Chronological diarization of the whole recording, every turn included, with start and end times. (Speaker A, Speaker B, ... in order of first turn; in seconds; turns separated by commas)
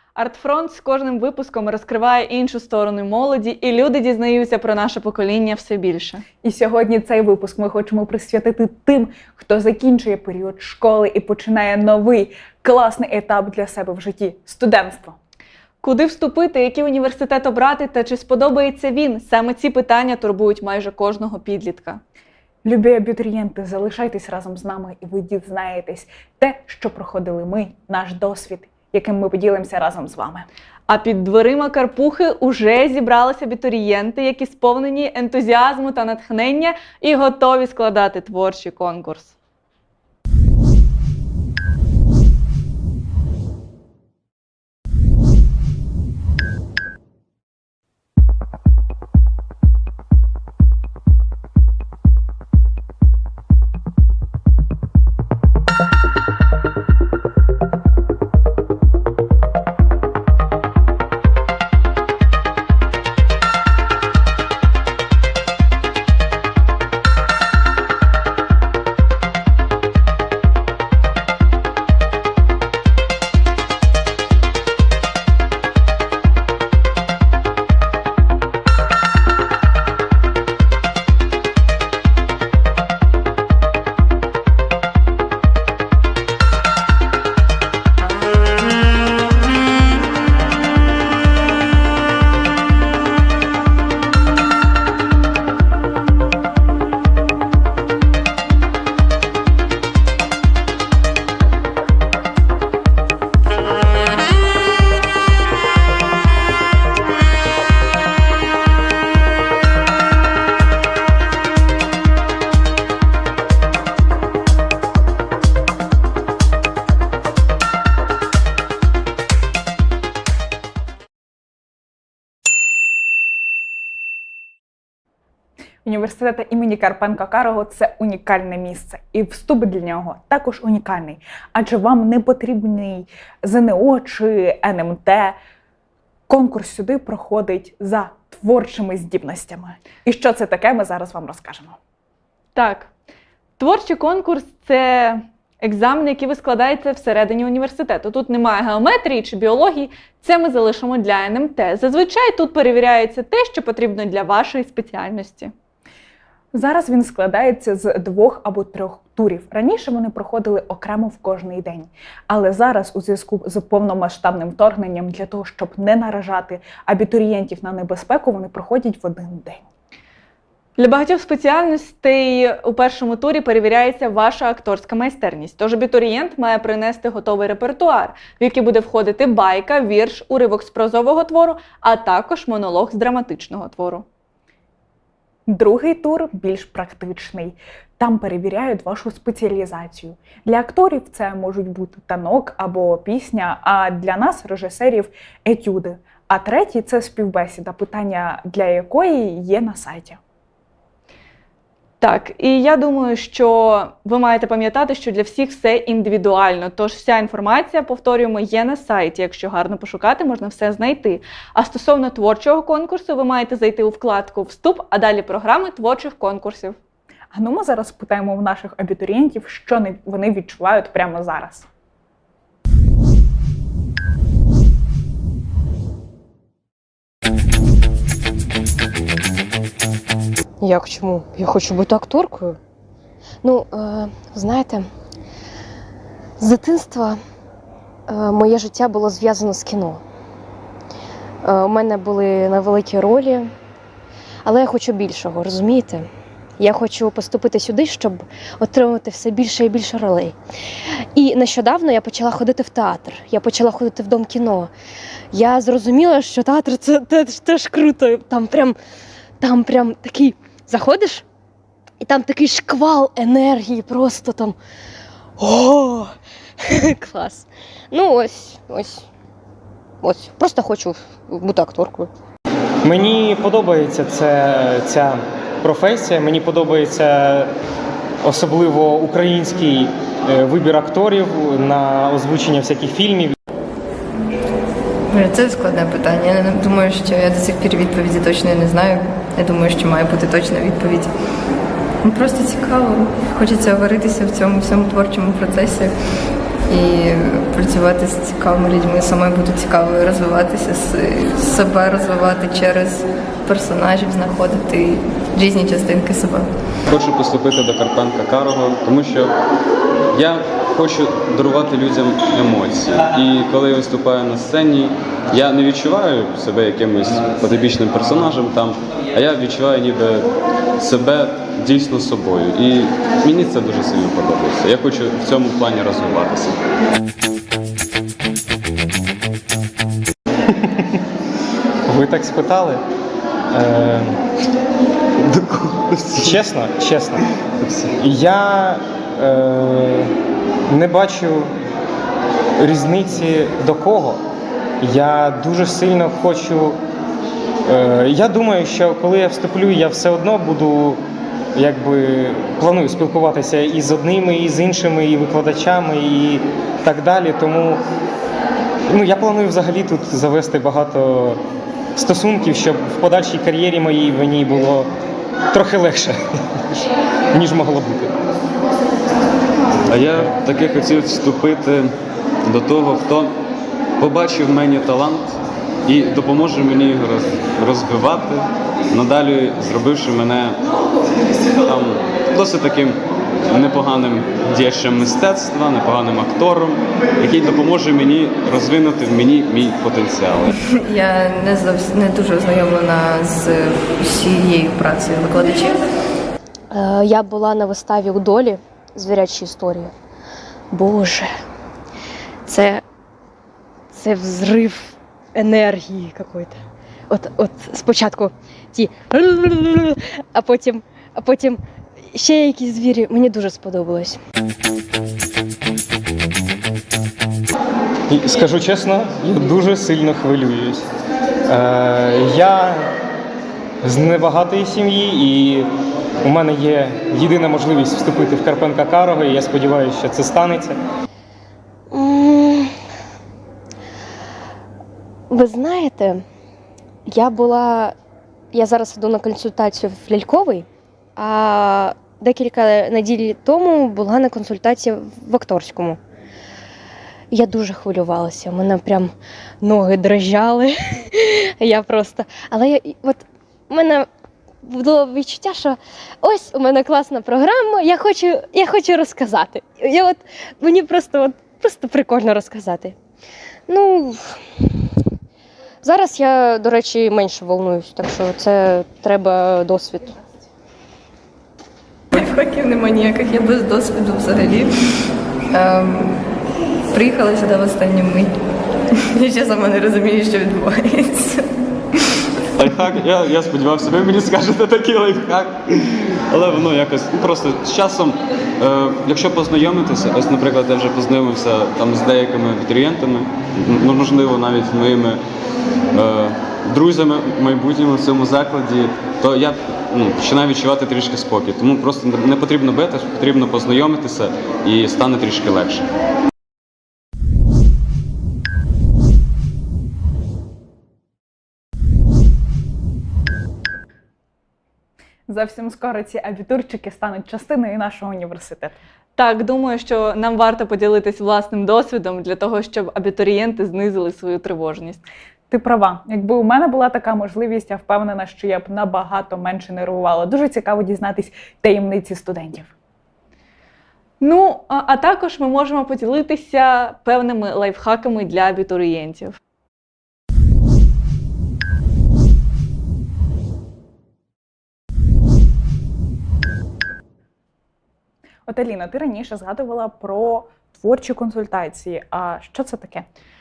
Speaker A: 0.1-6.2, Speaker B: 6.4-15.2, Speaker A: 15.8-22.0, Speaker B: 22.6-30.5, Speaker A: 30.9-39.4, Speaker B: 125.8-135.4, Speaker B: 136.3-141.8, Speaker A: 142.6-142.9, Speaker A: 143.6-155.5, Speaker B: 156.5-169.7, Speaker A: 170.8-184.1, Speaker B: 185.5-200.2, Speaker A: 202.0-216.8, Speaker B: 217.3-221.7, Speaker C: 230.6-232.6, Speaker C: 233.4-234.9, Speaker C: 236.4-237.2, Speaker C: 238.1-240.0, Speaker C: 241.4-243.5, Speaker C: 244.4-246.1, Speaker C: 246.6-250.3, Speaker C: 250.9-254.7, Speaker C: 255.3-258.8, Speaker C: 259.4-261.2, Speaker C: 262.0-264.6, Speaker C: 265.4-266.0, Speaker C: 266.7-269.1, Speaker C: 270.0-272.1, Speaker D: 272.8-277.5, Speaker D: 278.2-283.4, Speaker E: 285.1-291.1, Speaker E: 292.0-295.9, Speaker E: 296.7-306.5, Speaker F: 306.9-309.3, Speaker F: 310.1-326.6, Speaker D: 330.5-331.0, Speaker D: 331.9-332.8, Speaker D: 333.5-334.2, Speaker F: 335.2-336.4, Speaker D: 336.2-340.1, Speaker D: 340.7-341.5, Speaker D: 342.6-344.2, Speaker D: 344.8-346.8, Speaker D: 347.7-351.0, Speaker D: 351.6-357.8, Speaker D: 358.9-361.4, Speaker D: 361.9-364.9, Speaker D: 365.5-366.6, Speaker D: 367.3-368.1, Speaker F: 369.9-371.9, Speaker F: 372.4-373.3, Speaker F: 374.0-380.6, Speaker F: 381.6-390.6, Speaker E: 390.7-395.9, Speaker C: 396.7-399.9, Speaker C: 400.7-401.3, Speaker C: 402.5-402.8, Speaker C: 403.9-406.6, Speaker C: 407.1-414.2, Speaker D: 418.1-420.9, Speaker D: 421.5-422.9, Speaker D: 423.8-425.7, Speaker D: 426.2-430.8, Speaker C: 431.9-432.7, Speaker C: 435.3-436.2, Speaker C: 437.1-437.9, Speaker C: 438.5-446.0, Speaker C: 447.3-454.1, Speaker C: 454.7-463.0, Speaker C: 463.7-464.2, Speaker C: 465.8-470.2, Speaker E: 472.1-474.7, Speaker E: 475.5-476.2, Speaker E: 476.9-478.3, Speaker E: 478.9-481.5, Speaker F: 482.6-495.2, Speaker F: 495.9-505.9, Speaker B: 515.3-518.8, Speaker A: 519.1-525.0, Speaker B: 525.5-532.7, Speaker A: 534.2-539.4, Speaker B: 548.5-553.1